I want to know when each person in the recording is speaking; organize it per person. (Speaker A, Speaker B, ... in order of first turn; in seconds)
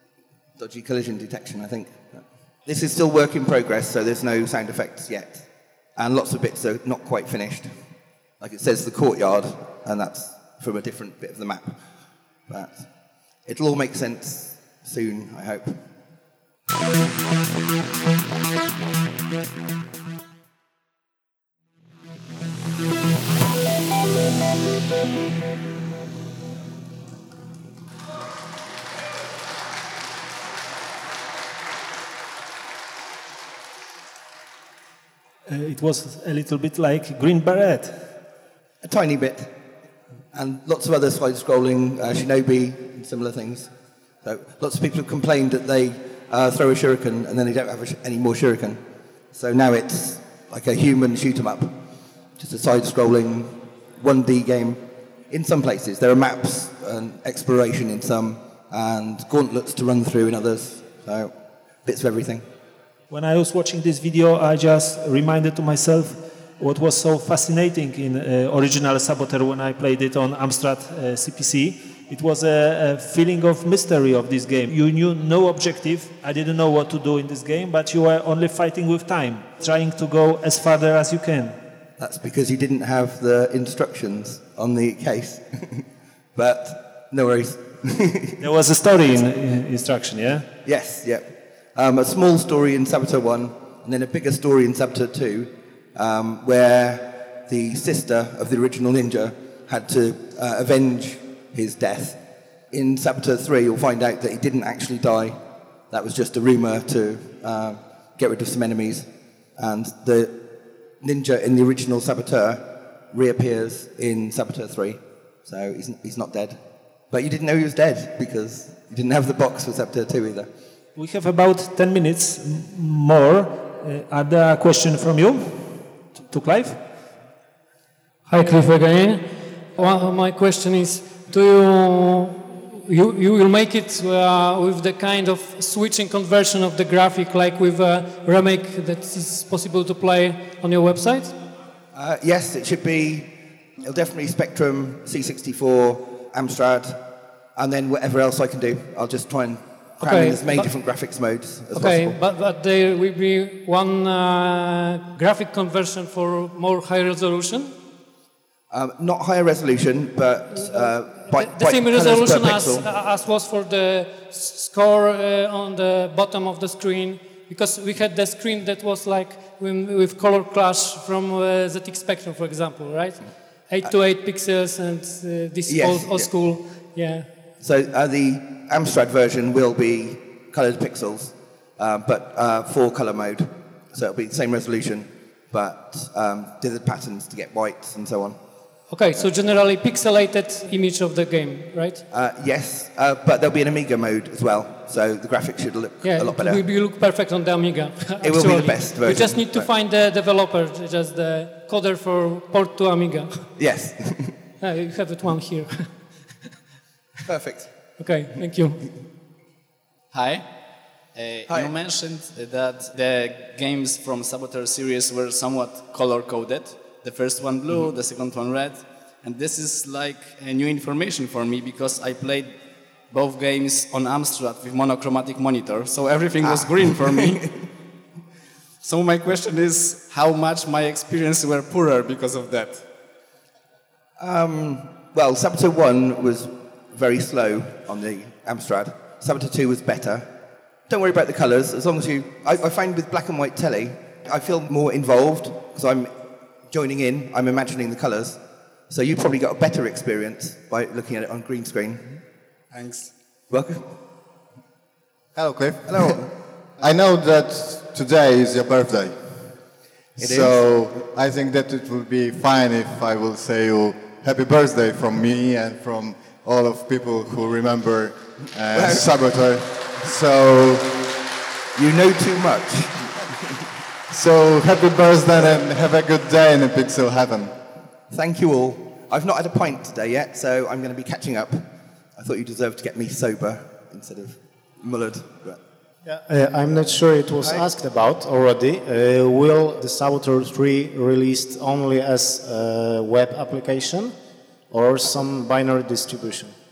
Speaker A: 0.6-5.4, 6.0-7.7, 8.4-11.7, 12.5-12.9, 13.4-15.7, 38.8-39.5, 40.3-43.7, 44.2-48.8, 49.3-51.7, 52.4-61.3, 61.8-62.4, 82.0-88.5, 90.6-102.2, 102.7-105.4, 105.9-110.5, 111.0-116.6, 117.1-120.5, 141.9-147.0, 147.6-152.2, 158.7-162.8, 175.7-176.3, 177.6-188.4, 192.1-196.6, 198.2-199.7, 203.6-204.4, 207.3-207.7, 226.4-227.6, 234.2-240.3, 240.9-246.1, 246.7-252.1, 253.5-253.8, 255.8-256.3, 260.2-260.6, 268.7-269.1, 271.7-273.1, 278.1-285.6
Speaker B: 35.5-38.1, 63.1-81.6, 88.4-90.5, 120.9-126.8
Speaker C: 128.3-141.3, 150.0-150.7, 151.7-157.7, 161.3-177.3, 188.9-192.0, 196.0-203.5, 204.6-205.8, 208.0-208.9
Speaker D: 210.1-210.5, 211.1-222.6, 223.1-227.4, 228.8-232.8, 252.7-253.1
Speaker E: 255.3-259.3, 260.1-271.1, 274.1-277.5
Speaker F: 286.0-294.1, 294.7-296.5